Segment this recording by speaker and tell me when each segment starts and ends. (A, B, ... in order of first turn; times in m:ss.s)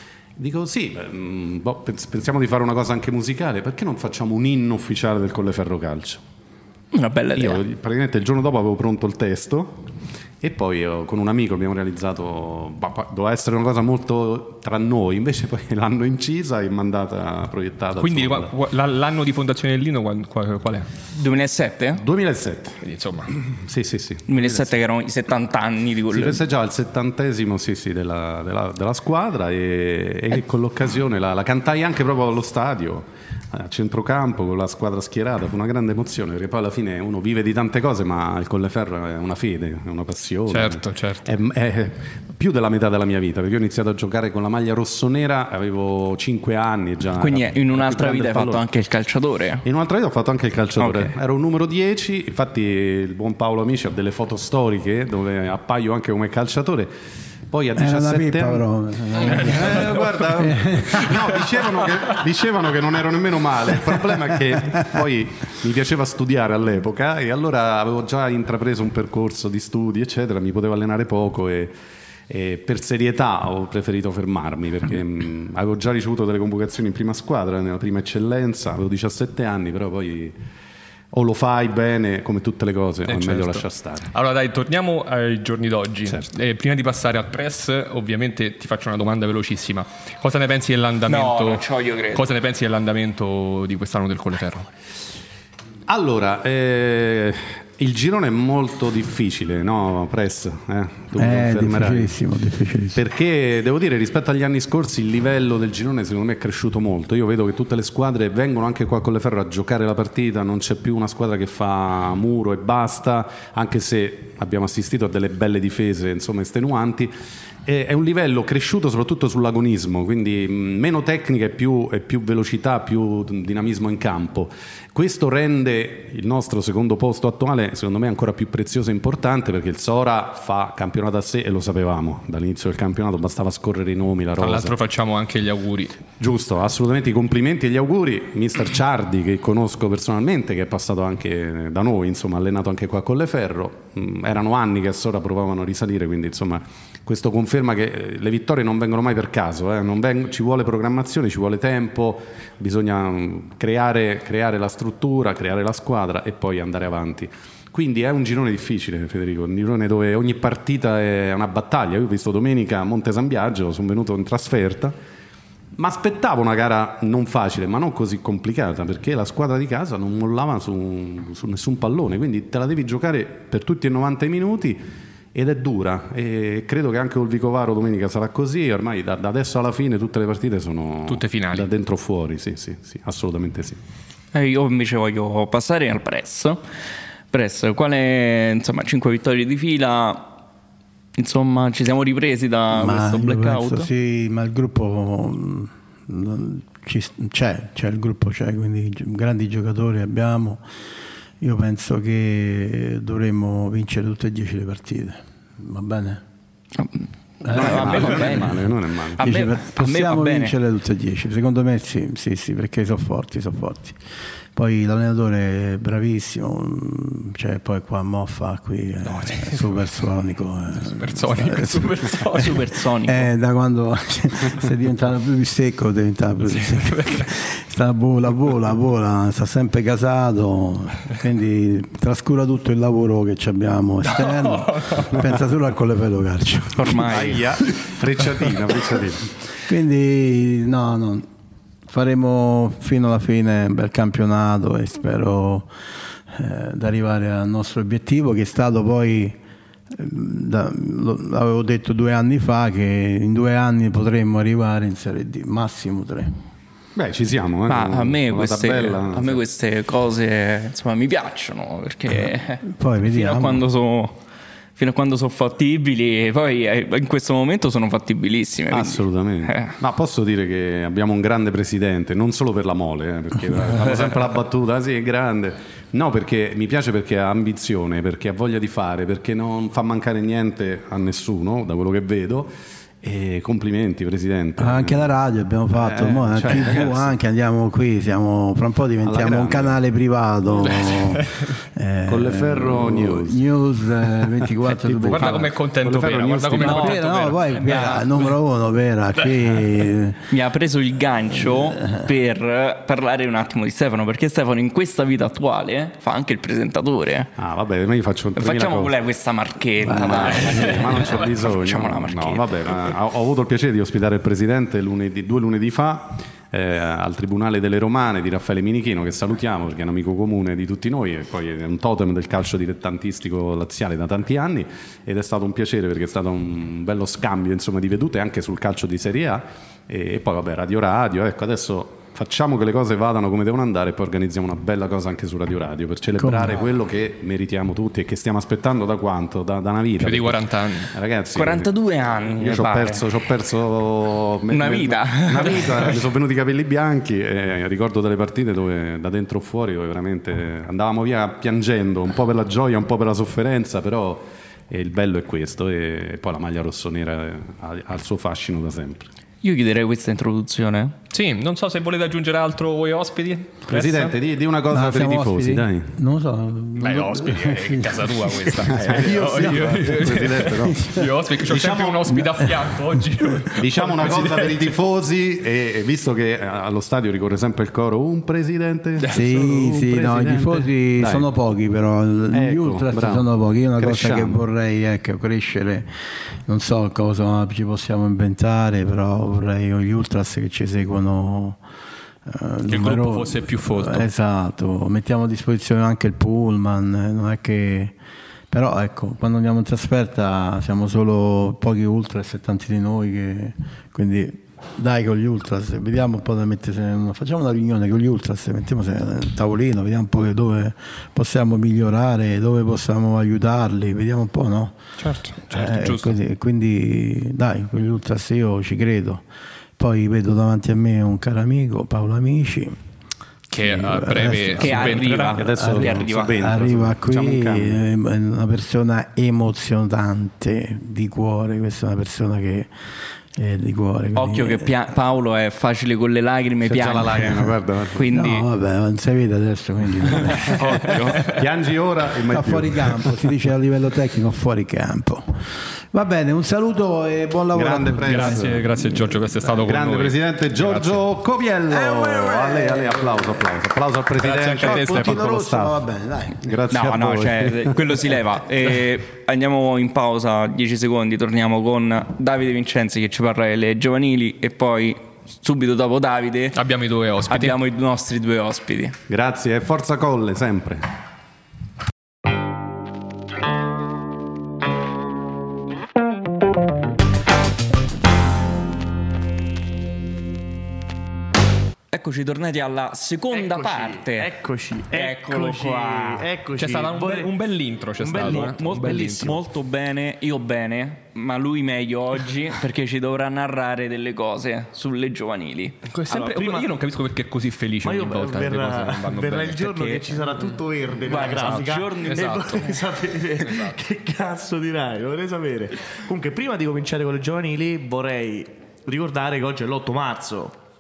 0:00.4-0:06.2 A
0:06.9-0:07.6 B
0:07.4-0:09.8 A
0:10.4-0:18.5 A
0:18.0-0:20.9 C
0:21.1-0:22.0 B
0:22.0-0:22.8 A
0:22.8-0:23.3 C
0:23.5-0:24.7 A
0:24.3-0:26.4 B
0:26.1-0:48.6 A
0:40.5-0:41.3 C
0:47.2-0:49.6 B
0:49.6-0:56.9 A
0:50.8-0:51.1 B
0:57.5-1:11.7 A
0:57.8-1:01.6 D
0:59.3-1:00.1 C
1:12.3-1:20.4 A
1:21.1-1:24.1 A
1:23.0-1:34.7 C
1:31.1-1:32.3 B
1:35.9-1:42.1 A
1:41.2-1:43.0 D
1:43.0-1:57.1 A
1:57.6-2:14.8 A
2:14.4-2:16.0 C
2:16.2-2:45.0 A
2:45.8-2:54.8 A
2:55.3-3:03.8 A
3:01.1-3:01.7 C
3:04.3-3:06.6 B
3:07.3-3:10.3 B
3:11.2-3:13.9 B
3:12.7-3:20.6 D
3:21.4-3:26.2 D
3:26.8-3:28.6 B
3:27.4-3:28.6 D
3:27.5-3:29.2 A
3:29.1-3:30.6 B
3:29.2-3:34.0 D
3:34.5-3:57.0 D
3:39.0-3:39.9 C
3:40.8-3:42.6 C
3:42.3-3:43.3 B
3:46.6-3:47.3 C
3:54.0-3:55.2 C
3:56.8-3:57.4 B
3:56.9-3:59.3 A
3:59.7-4:01.3 D
4:01.9-4:05.7 D
4:06.3-4:09.4 D
4:09.9-4:16.3 D
4:17.0-4:19.4 A
4:17.7-4:24.2 B
4:22.6-4:23.6 D
4:24.8-4:29.8 B
4:28.7-4:45.1 A
4:44.6-4:55.6 D
4:45.8-4:47.1 A
4:49.0-4:49.8 A
4:50.6-4:51.6 C
4:52.1-4:53.4 A
4:54.8-4:58.3 C
4:55.0-4:57.1 A
4:56.5-5:00.3 D
5:00.3-5:07.3 B
5:01.5-5:02.0 D
5:07.4-5:09.0 A
5:08.4-5:12.5 B
5:09.8-5:41.7 A
5:10.0-5:10.4 D
5:10.4-5:11.3 C
5:36.2-5:36.6 D
5:40.0-5:40.9 C
5:41.3-5:43.1 B
5:42.4-5:59.1 A
5:44.5-5:45.9 B
5:59.4-6:01.0 B
6:01.1-6:04.2 C
6:03.7-6:05.9 A
6:04.7-6:11.1 D
6:06.8-6:14.7 C
6:08.7-6:12.2 A
6:13.6-6:21.3 A
6:19.1-6:25.9 D
6:22.3-6:23.3 A
6:23.8-6:24.4 A
6:26.5-6:31.6 D
6:32.3-6:38.0 D
6:32.7-6:34.1 C
6:38.5-6:54.8 D
6:55.0-6:56.2 C
6:55.5-6:59.2 D
6:59.8-7:02.8 D
7:03.5-7:05.4 C
7:03.6-7:14.7 D
7:04.6-7:06.3 B
7:05.4-7:07.8 A
7:14.2-7:18.5 B
7:16.6-7:18.1 A
7:18.1-7:21.2 D
7:20.5-7:23.1 A
7:22.3-7:28.7 D
7:27.5-7:28.7 A
7:28.1-7:31.0 C
7:29.6-7:35.8 A
7:31.7-7:33.4 D
7:34.2-7:35.2 C
7:34.2-7:36.4 D
7:36.4-7:37.8 A
7:36.7-7:46.6 B
7:46.5-7:47.6 C
7:47.3-7:49.0 B
7:49.1-7:50.9 A
8:01.9-8:04.3 B
8:03.3-8:07.4 E
8:04.9-8:06.3 B
8:06.6-8:09.4 C
8:08.0-8:09.4 E
8:08.2-8:15.8 B
8:15.9-8:19.9 C
8:16.1-8:16.7 E
8:17.8-8:30.6 E
8:19.7-8:20.2 B
8:21.1-8:22.6 B
8:21.2-8:22.8 C
8:23.4-8:23.8 C